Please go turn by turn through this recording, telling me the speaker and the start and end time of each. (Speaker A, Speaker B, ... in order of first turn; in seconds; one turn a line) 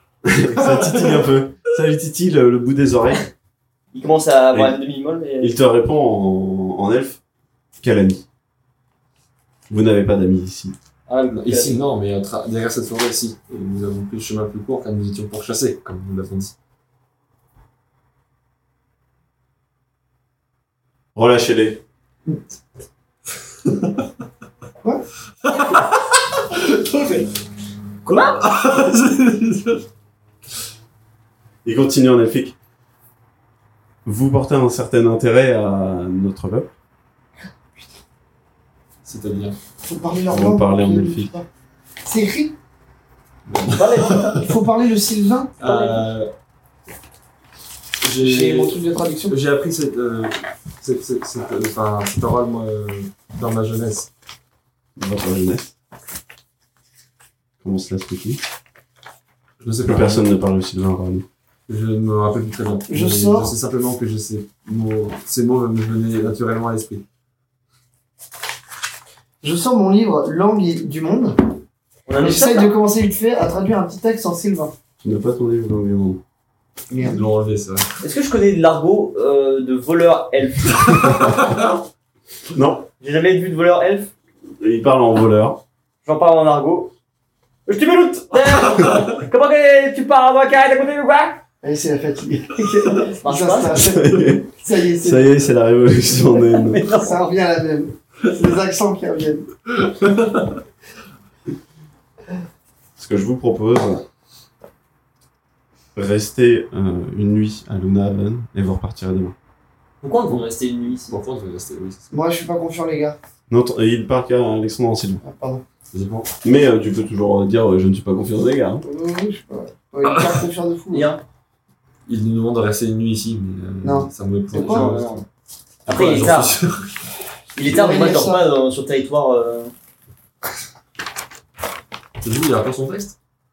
Speaker A: 0.2-3.2
Speaker B: 0.6-1.2
Speaker C: 3.9-5.5
Speaker A: 5.4-7.2
Speaker A: 7.8-8.2
Speaker A: 9.7-10.7
Speaker C: 11.1-11.8
Speaker B: 11.3-16.5
Speaker A: 21.1-21.8
Speaker B: 23.6-24.0
Speaker B: 25.4-27.3
Speaker C: 28.0-28.4
Speaker B: 28.1-29.8
Speaker A: 31.6-32.5
Speaker A: 34.0-36.7
Speaker B: 39.0-39.6
Speaker D: 39.8-41.5
Speaker A: 40.3-41.3
Speaker D: 42.0-42.5
Speaker B: 43.5-44.4
Speaker C: 43.7-44.5
Speaker D: 44.4-45.5
Speaker B: 45.6-46.3
Speaker C: 45.6-46.0
Speaker B: 48.0-54.1
Speaker D: 48.2-49.4
Speaker A: 55.0-55.7
Speaker A: 57.6-58.4
Speaker B: 59.6-60.3
Speaker A: 59.8-61.2
Speaker B: 61.7-67.0
Speaker D: 62.9-63.5
Speaker D: 69.4-71.5
Speaker C: 72.1-72.8
Speaker D: 72.2-74.7
Speaker A: 75.0-76.2
Speaker D: 76.9-77.2
Speaker B: 77.0-77.9
Speaker C: 78.0-81.3
Speaker B: 81.0-81.7
Speaker A: 82.5-82.9
Speaker C: 83.0-84.1
Speaker A: 84.6-85.6
Speaker C: 86.0-86.9
Speaker C: 87.7-91.4
Speaker D: 91.6-95.4
Speaker C: 92.8-93.9
Speaker A: 93.8-94.5
Speaker A: 95.0-96.8
Speaker C: 96.3-97.2
Speaker D: 96.9-99.5
Speaker B: 99.9-100.5
Speaker A: 103.0-104.0
Speaker A: 105.9-109.3
Speaker C: 110.0-111.1
Speaker B: 111.0-112.1
Speaker D: 112.1-113.2
Speaker A: 113.5-115.2
Speaker D: 115.2-115.6
Speaker B: 115.9-116.3
Speaker A: 116.4-118.8
Speaker D: 118.8-121.1
Speaker B: 120.0-120.4
Speaker C: 120.9-121.2
Speaker B: 122.1-125.2
Speaker D: 123.8-124.9
Speaker C: 124.5-125.2
Speaker C: 125.8-126.5
Speaker B: 125.8-127.0
Speaker C: 127.5-129.7
Speaker D: 127.5-128.4
Speaker B: 132.2-133.1